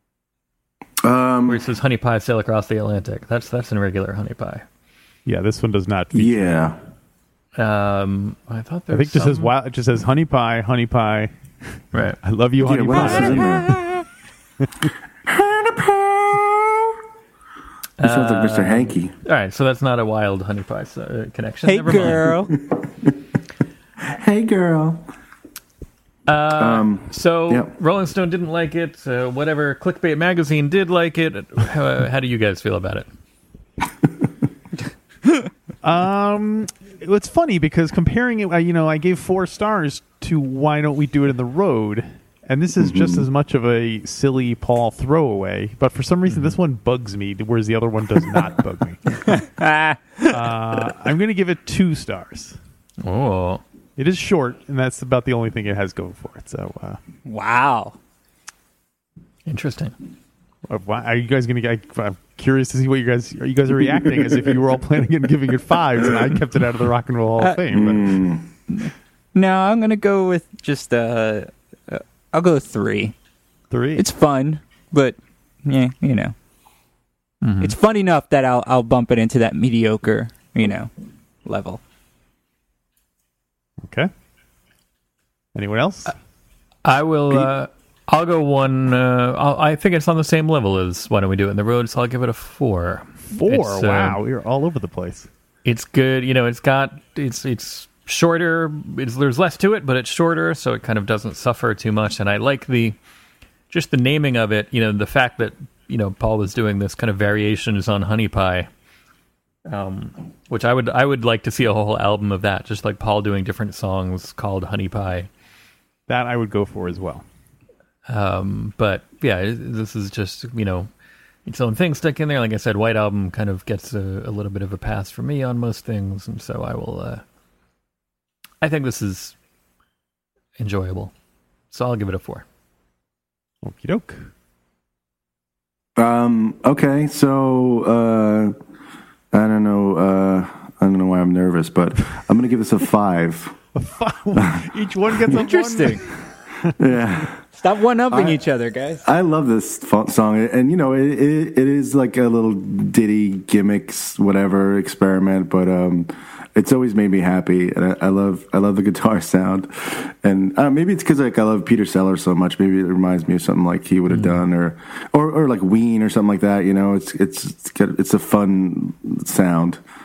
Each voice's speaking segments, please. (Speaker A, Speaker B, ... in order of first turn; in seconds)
Speaker A: 1.0-1.6, 6.1-6.8, 12.6-13.8, 15.3-16.9, 18.0-19.1, 24.0-25.0, 26.6-27.7, 42.8-43.3, 67.7-68.5, 136.0-138.6, 139.3-143.6, 146.8-147.4, 149.0-169.8
Speaker B: 1.5-4.7, 7.6-9.5, 11.9-12.2, 12.9-13.6, 18.0-22.4, 26.3-33.1, 46.3-46.6, 53.0-53.6, 59.5-59.9, 77.4-77.8, 86.8-94.2, 95.7-103.0, 103.7-108.7, 109.7-115.3, 118.1-120.9, 121.5-127.2, 128.6-129.3, 130.6-131.1, 131.7-132.4, 164.1-164.4
Speaker C: 5.3-6.7, 8.9-11.3, 12.2-13.8, 35.8-49.2, 50.3-52.6, 54.0-57.0, 60.7-68.2, 73.7-74.0, 83.8-84.1, 85.5-86.1, 93.3-95.3, 116.1-117.2, 133.6-134.3, 143.8-146.3
Speaker D: 21.6-22.6, 49.3-50.5, 57.2-58.0, 67.4-67.6, 68.7-73.1, 74.0-76.3, 77.6-80.9, 81.5-81.8, 145.3-146.0, 147.6-149.1